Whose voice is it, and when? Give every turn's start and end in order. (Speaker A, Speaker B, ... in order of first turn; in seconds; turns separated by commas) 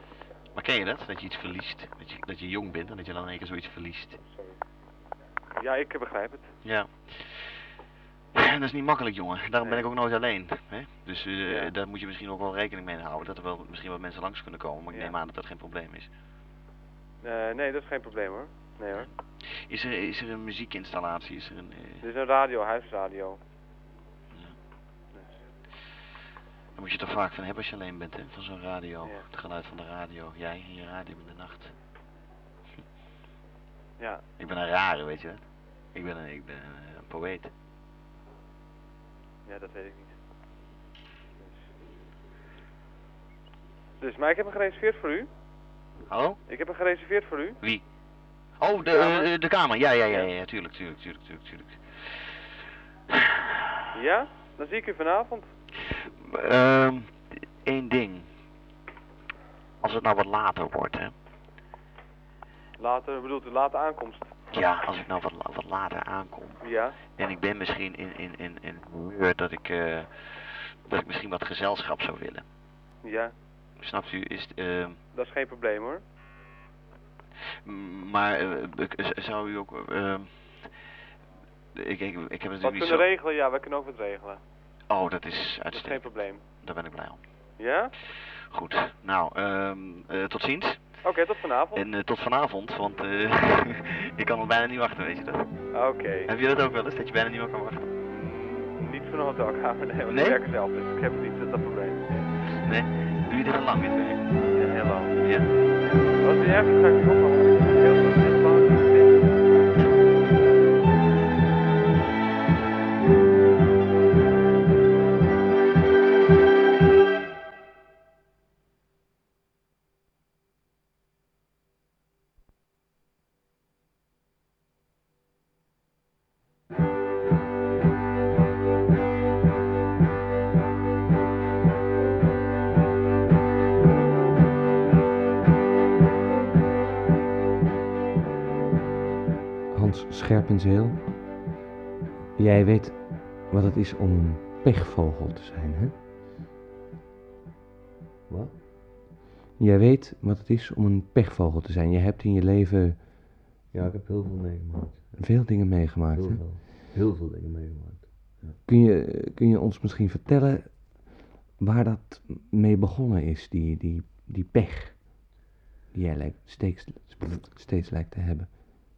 Speaker A: 0.5-4.2, Speaker B: 4.2-4.6, Speaker B: 5.5-6.5, Speaker A: 6.6-7.6, Speaker A: 8.3-16.1, Speaker B: 9.6-9.9, Speaker B: 11.4-11.7, Speaker B: 14.9-15.1, Speaker B: 17.2-19.1, Speaker A: 18.9-22.0, Speaker B: 22.0-23.4, Speaker A: 26.7-31.7, Speaker B: 34.0-34.2, Speaker A: 34.4-37.5, Speaker B: 39.5-40.1, Speaker B: 44.0-45.3, Speaker A: 46.1-46.4, Speaker B: 46.5-47.6, Speaker A: 48.6-52.3, Speaker B: 48.9-49.3, Speaker B: 53.9-55.5, Speaker A: 56.0-58.3, Speaker A: 59.8-61.1, Speaker B: 62.8-64.3, Speaker A: 64.5-72.5, Speaker B: 66.6-67.0, Speaker B: 73.0-73.3, Speaker A: 73.8-75.0, Speaker B: 75.1-76.0, Speaker A: 77.6-80.8, Speaker A: 81.7-83.0, Speaker B: 82.6-84.4, Speaker A: 84.9-87.3, Speaker B: 85.7-86.4, Speaker B: 87.6-87.9, Speaker A: 88.0-91.0, Speaker B: 91.0-91.8, Speaker A: 91.7-95.6, Speaker B: 95.7-96.3, Speaker A: 96.2-97.9, Speaker B: 98.1-102.3, Speaker A: 100.1-100.4, Speaker A: 102.5-104.3, Speaker B: 104.5-105.2, Speaker A: 105.2-105.5, Speaker B: 105.8-109.7, Speaker C: 139.7-141.0, Speaker C: 142.3-145.9, Speaker D: 148.3-148.6, Speaker C: 149.6-153.3, Speaker D: 153.7-158.6, Speaker C: 155.2-156.5, Speaker C: 158.7-165.2, Speaker C: 165.9-168.5